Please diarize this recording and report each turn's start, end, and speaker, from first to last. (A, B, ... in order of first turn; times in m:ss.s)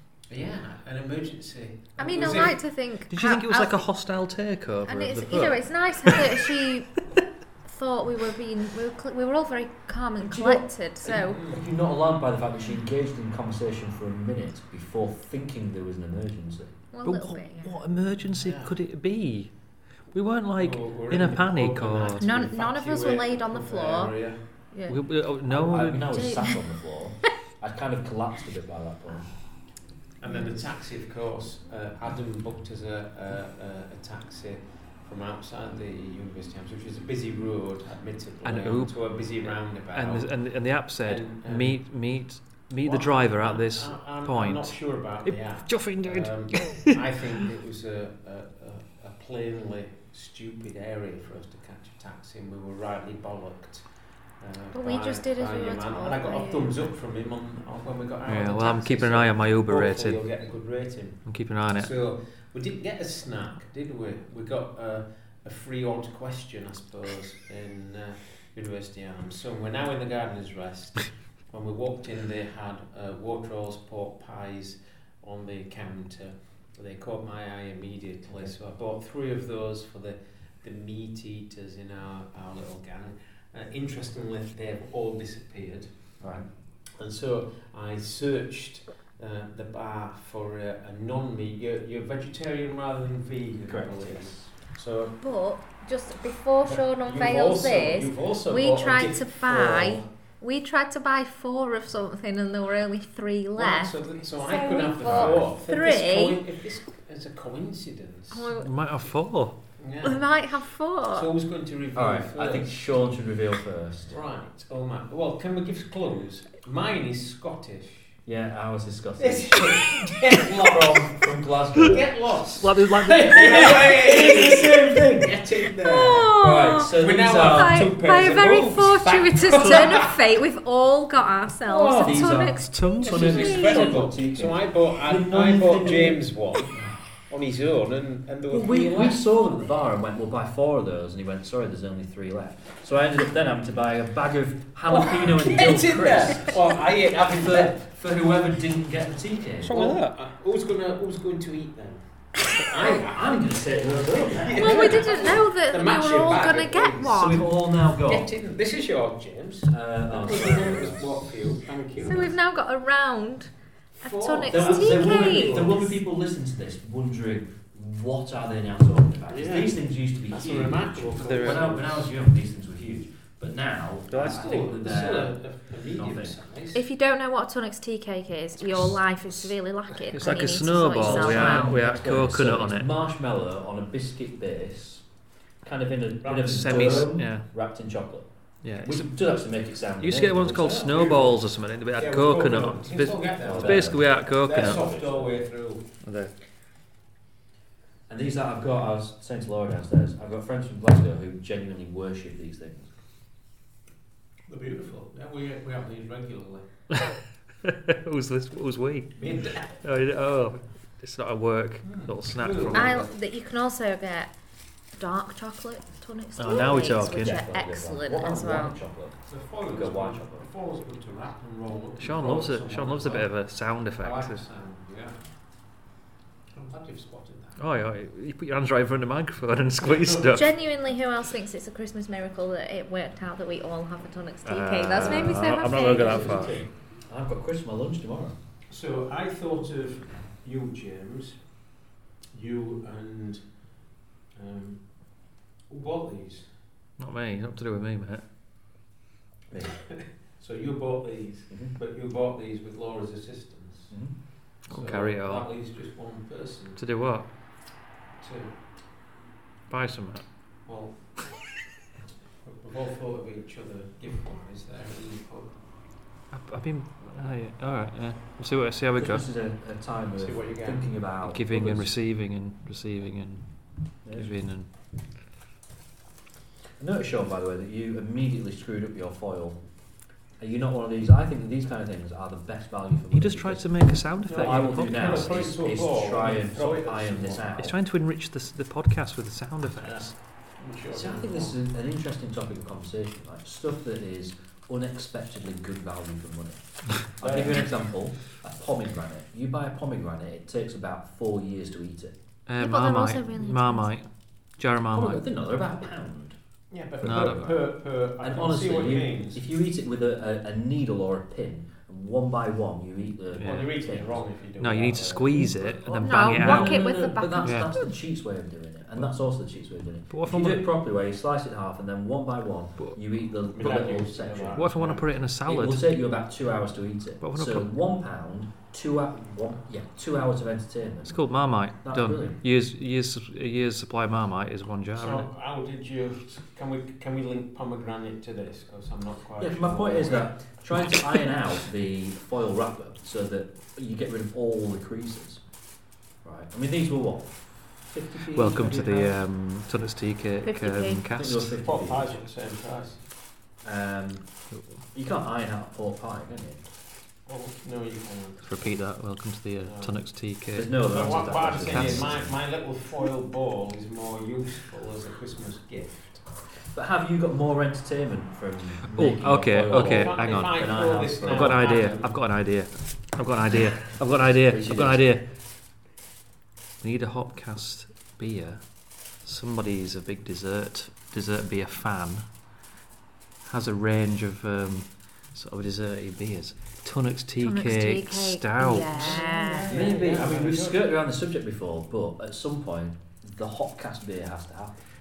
0:00.2-0:02.6 A
0:02.0-0:03.9 B
0:03.1-0:06.2 C
0:04.8-0:07.0 B
0:07.6-0:11.4 B
0:10.2-0:16.8 D
0:11.1-0:11.7 A
0:16.9-0:17.8 B
0:17.0-0:22.2 C
0:18.3-0:18.7 A
0:20.6-0:24.4 A
0:22.2-0:25.0 B
0:24.9-0:26.3 C
0:25.5-0:29.4 D
0:26.1-0:26.6 B
0:30.2-0:40.4 A
0:30.2-0:30.6 B
0:38.4-0:46.9 C
0:41.0-0:41.8 A
0:42.8-1:25.9 A
0:54.7-0:56.9 B
0:58.3-1:00.2 C
1:01.2-1:01.9 C
1:26.2-1:26.5 D
1:27.0-1:35.2 A
1:33.6-1:34.5 D
1:35.2-1:46.4 B
1:36.7-1:40.1 A
1:43.6-1:48.5 A
1:45.0-1:45.5 D
1:48.3-1:48.7 B
1:48.5-1:49.6 C
1:49.8-1:50.3 A
1:50.0-1:51.3 B
1:51.1-1:52.8 A
1:51.9-1:54.2 D
1:54.1-1:58.2 A
1:58.3-2:02.1 D
1:59.2-2:01.2 A
2:01.8-2:06.4 A
2:02.5-2:03.8 C
2:03.2-2:05.4 D
2:05.8-2:14.0 B
2:06.4-2:08.4 D
2:07.0-2:10.1 A
2:09.6-2:10.0 C
2:11.7-2:17.1 D
2:12.7-2:13.3 C
2:13.1-2:19.2 A
2:18.5-2:29.8 D
2:24.9-2:27.8 A
2:29.6-2:30.2 C
2:29.7-2:42.4 A
2:32.8-2:35.3 D
2:34.6-2:37.5 B
2:37.1-2:38.3 D
2:39.7-2:41.4 D
2:41.9-2:42.3 D
2:42.0-2:45.9 B
2:44.0-2:45.8 A
2:44.5-2:56.4 D
2:49.3-2:49.8 A
2:50.3-2:52.0 A
2:51.2-2:51.6 C
2:54.1-2:54.5 C
2:54.2-2:56.8 A
2:56.7-3:01.7 B
3:00.1-3:02.9 C
3:01.0-3:05.1 D
3:05.6-3:11.0 D
3:06.2-3:07.1 A
3:06.5-3:07.5 C
3:08.6-3:09.1 C
3:10.0-3:14.8 C
3:10.8-3:11.4 A
3:12.0-3:15.8 A
3:13.4-3:15.3 D
3:16.0-3:16.3 C
3:18.1-3:22.9 D
3:24.5-3:26.7 A
3:26.9-3:33.0 C
3:29.2-3:29.8 A
3:31.8-3:33.1 A
3:32.7-3:34.4 B
3:34.9-3:38.8 B
3:36.4-3:37.4 C
3:36.9-3:40.5 D
3:39.3-3:43.4 A
3:42.0-3:44.4 C
3:44.0-3:45.2 A
3:46.5-3:47.6 A
3:47.6-3:50.5 C
3:49.8-3:50.4 A
3:50.3-3:56.5 B
3:54.4-3:56.7 C
3:55.0-3:55.4 D
3:55.8-3:56.7 A
3:57.1-3:58.4 D
3:58.7-4:01.6 A
4:02.3-4:06.5 A
4:07.0-4:08.2 C
4:09.5-4:09.8 D
4:10.0-4:14.0 A
4:11.5-4:11.8 D
4:13.9-4:14.2 D
4:14.6-4:16.8 A
4:14.7-4:15.5 C
4:16.8-4:17.3 C
4:18.2-4:18.6 A
4:19.7-4:20.3 C
4:20.6-4:21.4 A
4:22.4-4:25.6 A
4:26.3-4:29.2 C
4:29.0-4:31.9 D
4:30.2-4:30.9 A
4:31.2-4:34.7 C
4:34.0-4:34.3 D
4:36.8-4:39.6 D
4:40.4-4:43.7 D
4:43.1-4:45.4 C
4:44.3-4:47.4 A
4:44.3-4:47.8 D
4:47.6-4:50.2 C
4:49.8-4:51.6 A
4:50.9-5:02.2 D
4:57.2-4:57.7 A
5:02.5-5:04.1 C
5:02.6-5:03.9 B
5:04.6-5:05.2 C
5:04.9-5:06.4 D
5:06.7-5:09.4 A
5:07.0-5:07.7 D
5:07.0-5:07.6 C
5:08.2-5:14.2 D
5:13.4-5:13.7 C
5:13.4-5:15.4 A
5:14.6-5:17.7 C
5:15.4-5:24.6 D
5:15.9-5:17.9 B
5:20.1-5:20.7 C
5:23.5-5:25.2 A
5:24.6-5:25.8 C
5:25.5-5:32.4 D
5:27.2-5:27.7 C
5:31.1-5:35.3 C
5:35.0-5:40.3 A
5:39.4-5:45.4 D
5:46.2-5:49.2 D
5:48.3-5:51.5 C
5:50.4-5:51.1 B
5:51.1-5:52.2 D
5:51.6-5:53.0 A
5:53.6-5:54.3 D
5:54.9-5:56.7 D
5:57.3-5:58.7 A
5:58.4-6:00.8 C
5:59.7-6:00.0 A
6:00.5-6:02.4 D
6:00.8-6:06.3 A
6:01.7-6:02.2 C
6:06.7-6:12.1 D
6:08.9-6:10.7 C
6:09.7-6:12.1 A
6:11.2-6:15.3 C
6:14.4-6:15.1 D
6:16.8-6:22.3 C
6:23.4-6:29.2 C
6:27.4-6:29.7 B
6:28.9-6:30.8 A
6:29.7-6:34.8 D